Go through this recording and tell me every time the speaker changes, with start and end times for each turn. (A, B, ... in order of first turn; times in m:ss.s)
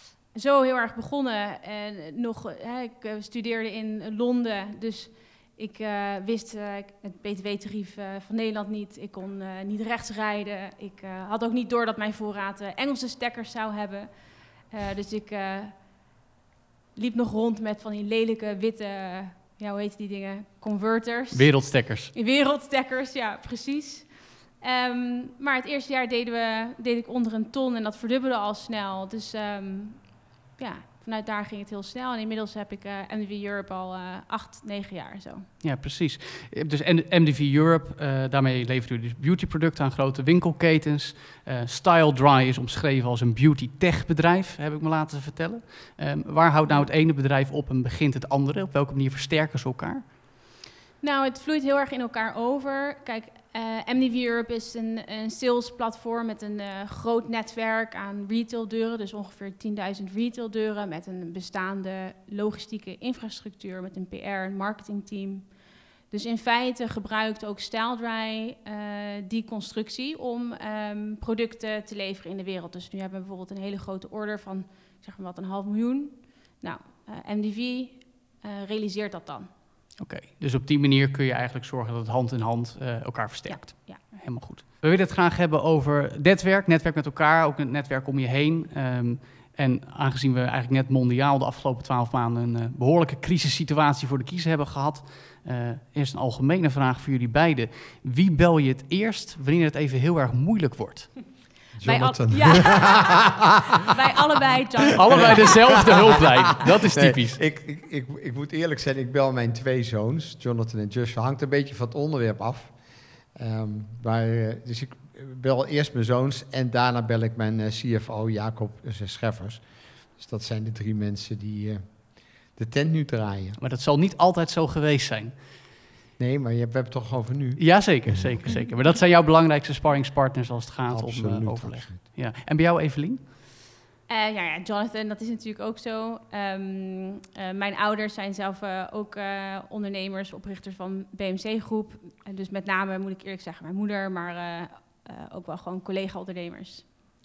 0:00.3-0:15.8 A
0:17.0-0:35.5 A
0:21.3-0:22.1 B
0:35.6-0:50.0 B
0:51.0-1:05.5 A
1:06.1-1:19.5 A
1:20.0-1:41.2 B
1:23.5-1:24.0 A
1:41.8-1:43.3 C
1:41.8-1:43.3 A
1:43.9-1:45.6 A
1:44.9-1:47.4 B
1:45.1-1:52.7 C
1:53.3-1:59.6 C
2:00.2-2:01.9 C
2:02.5-2:03.6 C
2:03.6-2:05.4 B
2:06.2-2:08.5 C
2:07.6-2:13.2 B
2:10.9-2:12.0 C
2:14.1-2:26.8 A